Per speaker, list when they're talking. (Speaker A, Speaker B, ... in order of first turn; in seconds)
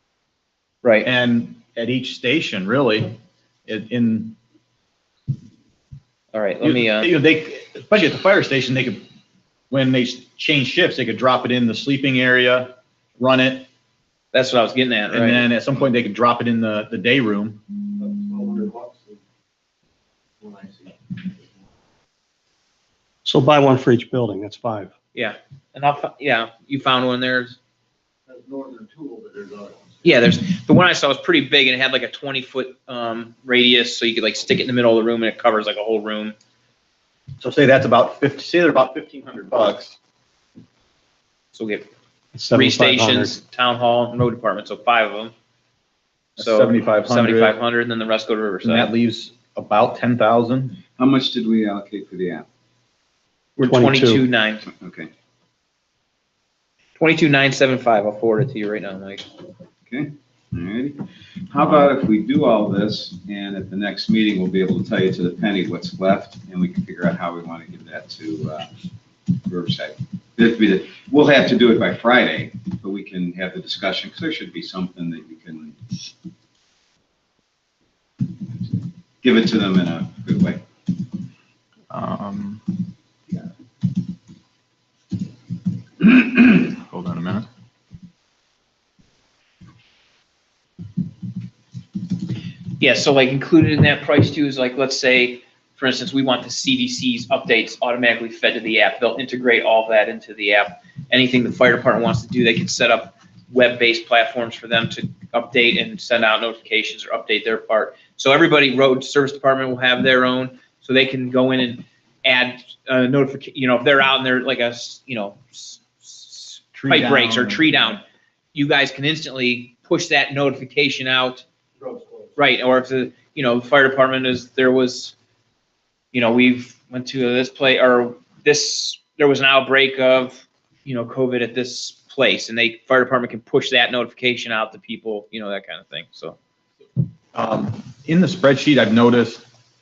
Speaker A: 0.8-1.1, 6.3-7.1, 14.3-15.4, 25.1-27.6, 30.0-36.3, 41.5-41.9, 42.5-45.3, 46.4-48.9, 53.6-54.6, 57.0-59.3, 92.8-118.0, 118.5-121.4, 122.3-125.1, 126.1-136.4
Speaker B: 1.0-3.1, 3.7-4.3, 6.6-9.0, 9.7-13.7, 15.1-17.6, 37.4-40.0, 46.4-47.6, 48.6-50.8, 81.9-82.6, 86.4-87.5, 116.7-118.0, 137.3-139.4
Speaker C: 18.0-19.2, 20.4-20.9, 28.3-30.1
Speaker D: 23.2-24.9, 42.3-43.4, 53.6-54.2
Speaker E: 51.0-52.5, 54.6-55.1, 59.9-68.7, 69.3-76.0, 79.2-80.6